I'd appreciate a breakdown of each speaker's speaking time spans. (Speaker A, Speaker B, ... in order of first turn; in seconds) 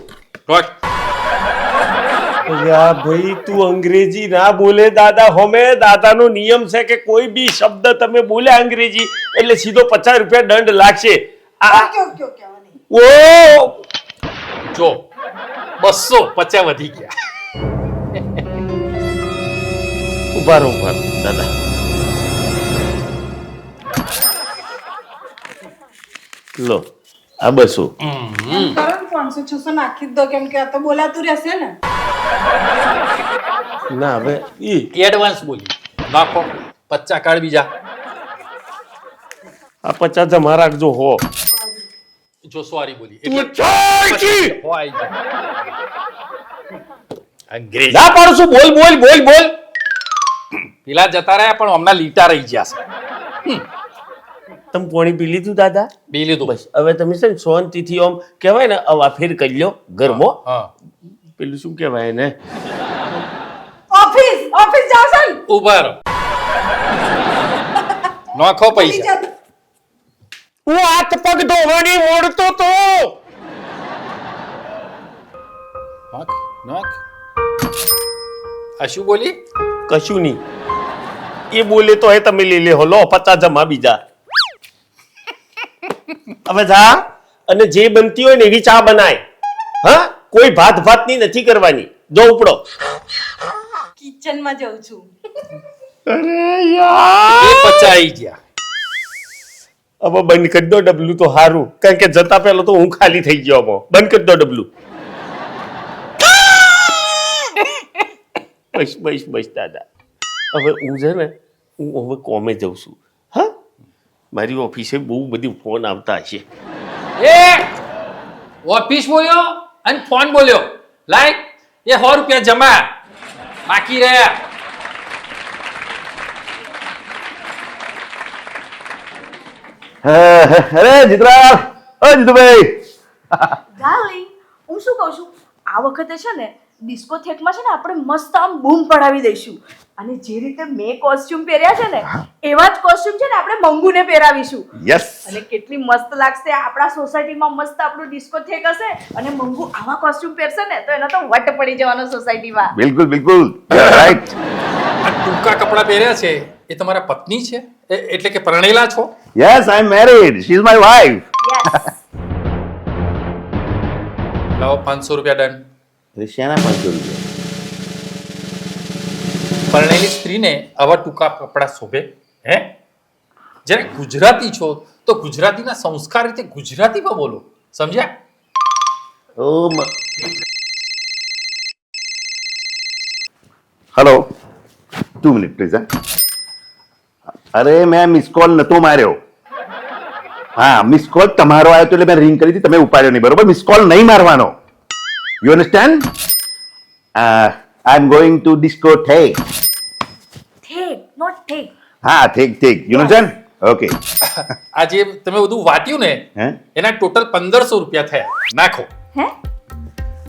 Speaker A: 0.5-0.8, 14.7-15.1, 15.8-17.1, 18.1-18.5, 28.0-28.8, 34.9-37.7, 42.5-45.2, 47.5-48.2, 50.9-52.8, 56.1-56.6, 60.0-60.7, 65.5-66.0, 68.3-69.1, 76.1-77.0, 78.8-79.4, 97.4-98.4, 117.2-117.7, 118.6-123.0, 123.7-124.4, 153.7-154.2, 155.1-159.1, 164.6-165.6, 169.7-172.7, 173.7-178.1, 204.2-208.9
Speaker B: 2.5-11.9, 12.9-13.8, 20.4-21.5, 26.6-26.8, 27.4-27.9, 33.9-34.9, 39.9-41.2, 43.3-44.6, 47.9-49.5, 54.7-55.9, 56.4-60.4, 61.4-62.3, 70.7-73.2, 79.9-80.4, 81.5-84.0, 86.5-89.2, 89.8-92.6, 96.1-97.9, 100.0-104.7, 106.2-107.4, 108.7-109.8, 110.5-113.5, 114.3-116.5
Speaker C: 11.7-12.8, 28.5-31.8, 41.5-41.9, 63.9-65.4, 68.7-69.3, 94.0-95.1
Speaker D: 130.0-132.8, 144.8-145.4, 152.8-154.3, 159.4-161.2, 166.2-167.2, 179.4-179.9, 183.9-184.2, 185.2-185.8, 187.5-189.2, 190.6-194.5, 195.4-196.1, 197.2-199.4, 202.0-204.0
Speaker E: 133.8-144.7, 145.3-152.7, 161.4-161.9, 200.7-201.7